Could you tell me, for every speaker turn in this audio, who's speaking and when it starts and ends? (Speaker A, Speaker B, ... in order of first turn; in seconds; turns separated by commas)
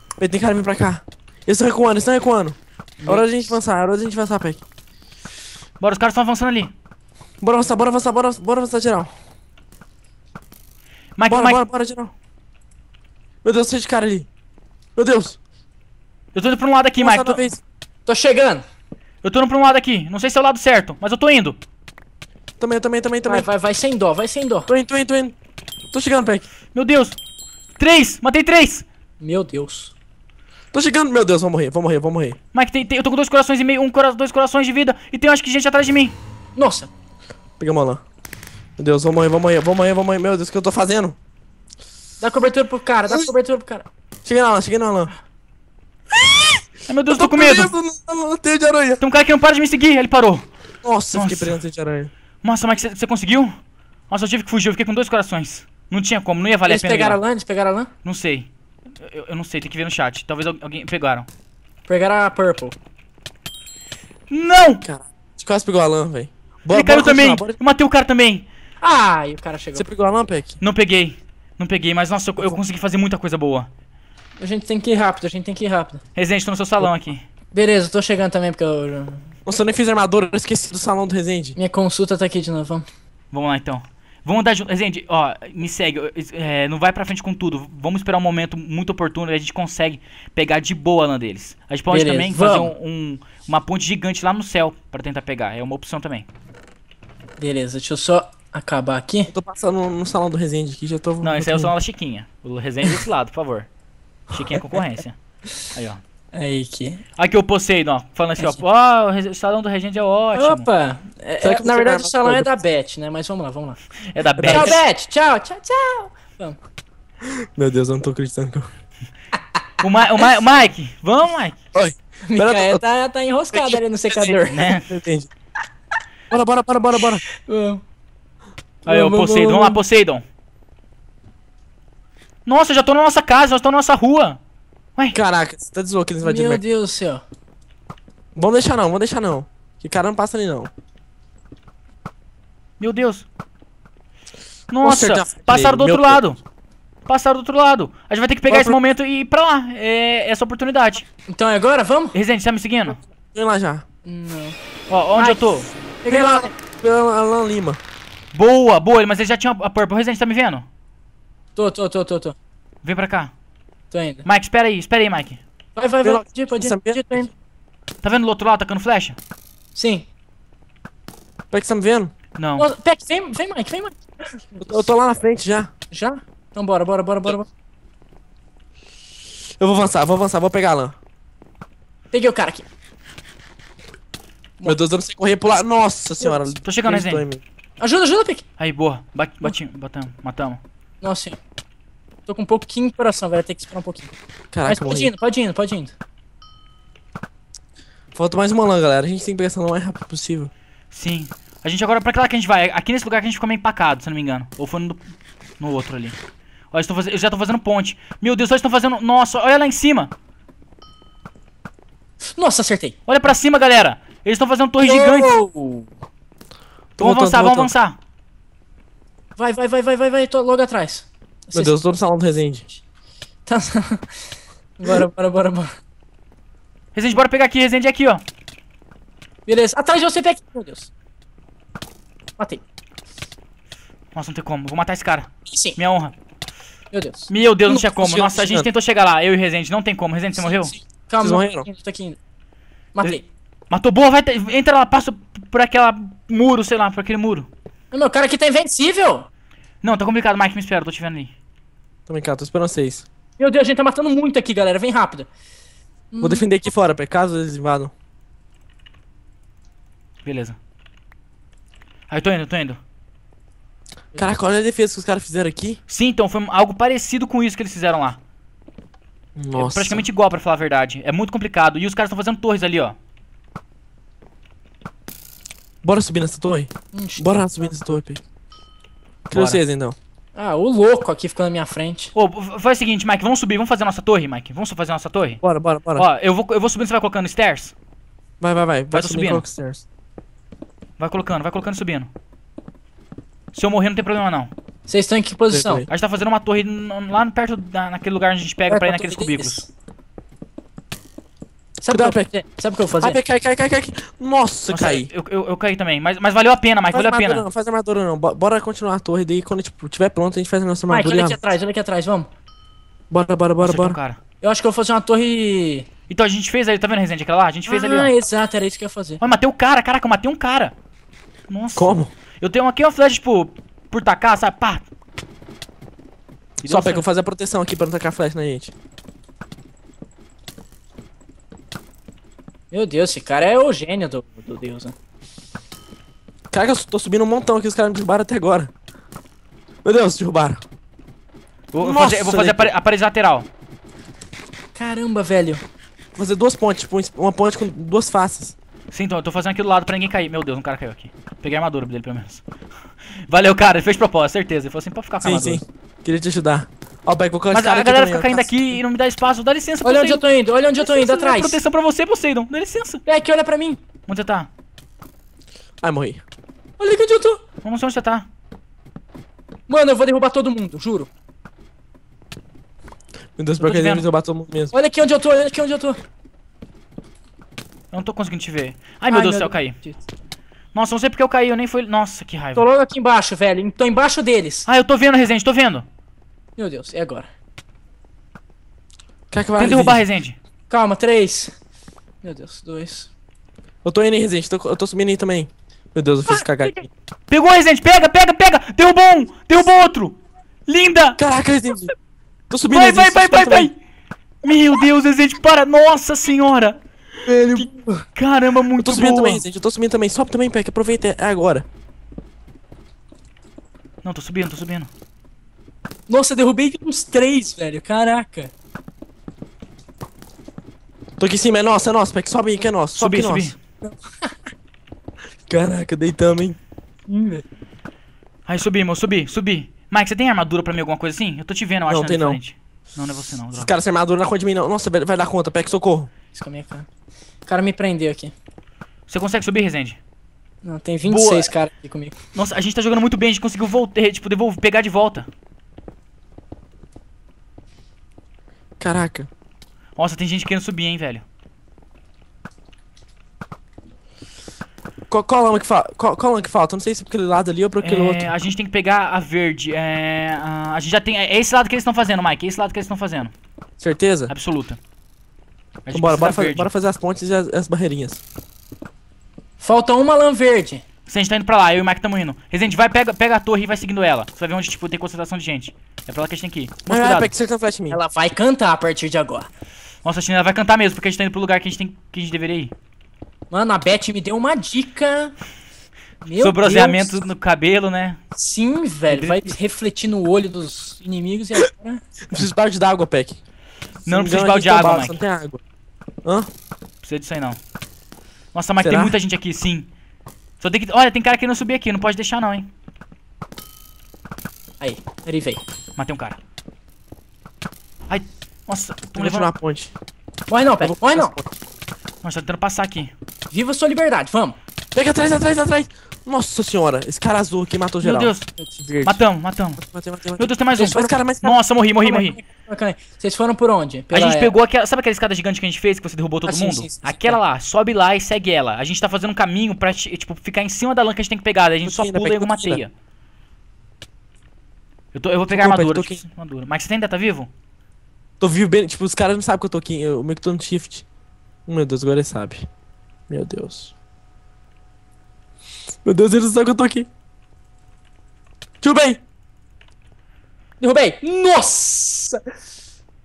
Speaker A: 0.2-4.6, Speaker B: 3.0-3.5, Speaker C: 5.8-6.7, Speaker A: 7.4-9.1, Speaker C: 11.2-11.6, Speaker A: 11.2-12.1, Speaker A: 13.4-14.3, Speaker A: 14.9-15.4, Speaker C: 16.3-17.5, Speaker A: 17.0-17.6, Speaker B: 18.1-18.6, Speaker C: 19.2-21.6, Speaker A: 22.6-23.5, Speaker B: 23.3-24.7, Speaker A: 24.7-25.3, Speaker A: 25.9-26.4, Speaker C: 26.7-27.2, Speaker C: 27.8-28.9, Speaker B: 29.2-29.9, Speaker A: 30.7-32.4, Speaker C: 32.5-36.1, Speaker B: 36.5-36.9, Speaker A: 37.6-38.0, Speaker A: 38.8-41.2, Speaker B: 42.2-43.9, Speaker A: 44.2-45.1, Speaker A: 46.1-49.0, Speaker C: 46.9-47.7, Speaker C: 49.0-50.5, Speaker A: 50.8-52.1, Speaker C: 51.1-51.6, Speaker C: 52.4-53.5, Speaker C: 54.1-57.2, Speaker B: 56.7-57.9, Speaker C: 58.0-58.5, Speaker C: 59.0-61.3, Speaker B: 61.9-62.7, Speaker C: 64.3-64.8, Speaker A: 64.8-67.6, Speaker C: 66.7-68.5, Speaker B: 68.8-69.9, Speaker A: 69.7-70.6, Speaker C: 70.6-73.7, Speaker B: 74.4-76.0, Speaker C: 76.1-77.2, Speaker B: 77.5-79.3, Speaker A: 79.5-81.6, Speaker B: 81.5-82.8, Speaker C: 83.3-96.3, Speaker B: 91.9-92.7, Speaker B: 97.4-99.3, Speaker A: 99.3-101.7, Speaker C: 101.2-103.7, Speaker C: 104.3-105.2, Speaker C: 105.7-106.0, Speaker B: 106.3-107.0, Speaker C: 107.2-110.7, Speaker B: 110.3-113.8, Speaker A: 111.4-112.5, Speaker C: 114.1-114.8, Speaker A: 114.4-114.7, Speaker B: 114.5-116.6, Speaker A: 117.2-118.7, Speaker C: 119.8-121.6, Speaker A: 121.7-122.8, Speaker B: 122.3-124.7, Speaker A: 123.5-125.3, Speaker C: 124.5-124.9, Speaker A: 126.3-127.2, Speaker B: 127.2-127.8, Speaker B: 128.8-129.8, Speaker C: 128.9-130.2, Speaker C: 132.4-134.4, Speaker A: 135.1-136.6, Speaker B: 136.2-137.2, Speaker A: 138.3-140.7, Speaker C: 142.8-143.2, Speaker C: 144.7-146.4, Speaker A: 144.8-146.2, Speaker C: 147.1-151.0, Speaker A: 148.5-148.8, Speaker B: 151.3-152.2, Speaker C: 152.1-153.0, Speaker A: 153.2-153.8, Speaker B: 154.0-154.6, Speaker C: 154.9-155.7, Speaker B: 155.2-155.5, Speaker B: 156.0-156.5, Speaker A: 156.1-157.8, Speaker C: 158.3-160.7, Speaker B: 161.6-162.3, Speaker C: 162.8-163.3, Speaker B: 163.9-164.2, Speaker C: 164.2-165.4, Speaker B: 165.8-167.3, Speaker A: 166.0-167.3, Speaker C: 168.0-169.2, Speaker B: 169.8-170.1, Speaker A: 171.5-172.1, Speaker C: 172.4-172.7, Speaker B: 172.6-174.8, Speaker A: 174.6-175.7, Speaker B: 175.9-177.5, Speaker A: 179.6-181.0, Speaker B: 182.1-182.6, Speaker A: 184.6-187.4, Speaker C: 186.6-187.2, Speaker B: 187.8-188.4, Speaker C: 188.6-190.6, Speaker B: 191.0-191.4, Speaker B: 192.3-194.1, Speaker A: 194.5-195.1, Speaker B: 194.7-195.9, Speaker A: 198.1-200.5, Speaker C: 200.9-205.0, Speaker C: 205.6-206.2, Speaker C: 206.7-210.1, Speaker B: 212.2-212.9, Speaker C: 213.1-215.3, Speaker B: 214.8-215.9, Speaker A: 217.0-217.7, Speaker C: 217.0-218.0, Speaker B: 219.4-221.8, Speaker A: 221.5-222.6, Speaker B: 223.4-224.2, Speaker B: 224.8-225.7, Speaker C: 226.9-228.2, Speaker B: 229.4-230.9, Speaker C: 234.1-236.1, Speaker B: 235.5-235.8, Speaker B: 236.9-237.9, Speaker C: 237.3-240.7, Speaker A: 238.0-238.7, Speaker B: 240.6-242.2, Speaker A: 241.2-241.7, Speaker B: 242.9-243.2, Speaker C: 243.7-247.5, Speaker B: 247.9-249.3, Speaker C: 249.8-251.3, Speaker A: 252.1-253.1, Speaker B: 253.4-255.3, Speaker B: 256.1-256.5, Speaker A: 256.2-257.9, Speaker C: 260.2-260.6, Speaker C: 262.1-262.8, Speaker A: 264.1-265.8, Speaker C: 265.9-268.2, Speaker A: 269.4-270.0, Speaker C: 269.6-272.9, Speaker A: 275.8-278.2, Speaker B: 276.9-277.9, Speaker C: 279.3-279.6, Speaker A: 279.3-279.9, Speaker B: 280.3-282.1, Speaker C: 282.1-285.4, Speaker A: 285.4-286.1, Speaker C: 285.9-287.7, Speaker A: 288.4-289.8, Speaker C: 288.9-289.4, Speaker C: 291.0-292.1, Speaker C: 293.5-294.5, Speaker B: 294.9-295.9, Speaker A: 295.5-295.9, Speaker C: 295.9-299.6, Speaker B: 298.6-299.7, Speaker A: 301.8-302.3, Speaker B: 301.8-303.2, Speaker A: 303.0-305.1, Speaker C: 304.7-307.4, Speaker A: 306.9-311.4, Speaker B: 310.9-312.3, Speaker A: 313.1-314.0, Speaker C: 313.6-314.2, Speaker B: 314.4-315.9, Speaker C: 316.1-318.1, Speaker B: 317.7-319.2, Speaker C: 319.2-320.7, Speaker C: 321.5-324.9, Speaker A: 321.7-322.1, Speaker C: 326.6-327.0, Speaker A: 326.6-328.7, Speaker B: 332.7-334.9, Speaker A: 336.5-338.7, Speaker A: 339.8-340.6, Speaker C: 341.7-343.5, Speaker A: 341.8-342.7, Speaker B: 344.7-345.6, Speaker A: 346.1-348.5, Speaker C: 348.9-352.4, Speaker C: 353.3-355.6, Speaker A: 355.2-358.8, Speaker C: 357.5-360.2, Speaker B: 359.8-361.6, Speaker C: 360.8-363.0, Speaker B: 363.1-363.8, Speaker C: 364.1-364.5, Speaker A: 365.8-366.2, Speaker B: 366.8-367.4, Speaker C: 367.6-368.2, Speaker B: 369.7-371.1, Speaker A: 373.4-374.7, Speaker C: 373.6-374.1, Speaker B: 374.7-376.0, Speaker C: 377.9-379.8, Speaker B: 379.1-380.0, Speaker C: 380.7-382.6, Speaker B: 382.6-384.7, Speaker C: 384.6-385.8, Speaker B: 386.6-387.3, Speaker A: 389.3-390.0, Speaker C: 389.6-390.4, Speaker B: 390.7-391.5, Speaker B: 392.2-393.1, Speaker A: 393.8-396.9, Speaker B: 396.3-396.7, Speaker C: 397.3-401.2, Speaker A: 401.2-401.9, Speaker A: 402.5-403.7, Speaker C: 402.7-403.8, Speaker C: 404.4-409.4, Speaker B: 407.6-408.0, Speaker A: 408.8-411.6, Speaker C: 414.0-414.9, Speaker B: 416.1-418.5, Speaker A: 421.2-423.5, Speaker C: 422.9-423.6, Speaker B: 423.8-424.3, Speaker A: 425.5-426.6, Speaker B: 427.1-427.4, Speaker C: 428.4-433.7, Speaker A: 431.9-432.4, Speaker A: 433.5-436.1, Speaker B: 436.3-436.9, Speaker B: 437.5-438.3, Speaker C: 439.1-440.0, Speaker B: 440.6-442.2, Speaker C: 441.0-441.5, Speaker C: 442.3-445.3, Speaker A: 448.8-449.3, Speaker C: 449.9-451.2, Speaker A: 455.1-458.3, Speaker C: 457.8-463.3, Speaker A: 463.8-464.3, Speaker C: 464.3-464.8, Speaker C: 465.8-466.7, Speaker A: 465.9-468.2, Speaker B: 469.6-470.8, Speaker C: 471.1-477.3, Speaker A: 476.9-478.0, Speaker B: 477.9-479.5, Speaker C: 480.0-482.7, Speaker B: 483.5-485.4, Speaker B: 486.2-487.0, Speaker C: 486.4-488.2, Speaker A: 486.8-487.2, Speaker B: 488.3-492.1, Speaker C: 489.1-489.6, Speaker A: 492.3-493.4, Speaker C: 494.0-495.2, Speaker A: 494.1-495.6, Speaker C: 497.0-497.6, Speaker C: 498.5-499.9, Speaker A: 498.8-499.1, Speaker C: 500.6-502.7, Speaker B: 504.8-505.6, Speaker C: 505.9-506.4, Speaker C: 508.1-509.5, Speaker A: 509.1-509.9, Speaker B: 510.5-511.3, Speaker A: 510.8-511.5, Speaker C: 512.2-513.1, Speaker B: 513.5-514.6, Speaker A: 514.9-519.2, Speaker C: 518.0-518.5, Speaker C: 519.0-519.8, Speaker A: 519.8-521.6, Speaker C: 520.4-522.4, Speaker B: 520.8-521.1, Speaker B: 522.0-524.5, Speaker C: 524.1-532.9, Speaker B: 526.5-527.4, Speaker A: 531.8-532.8, Speaker C: 535.1-537.5, Speaker A: 535.5-536.2, Speaker A: 538.4-541.0, Speaker A: 541.7-542.7, Speaker A: 543.3-543.9, Speaker A: 546.0-547.1, Speaker A: 548.8-549.2, Speaker B: 550.8-552.4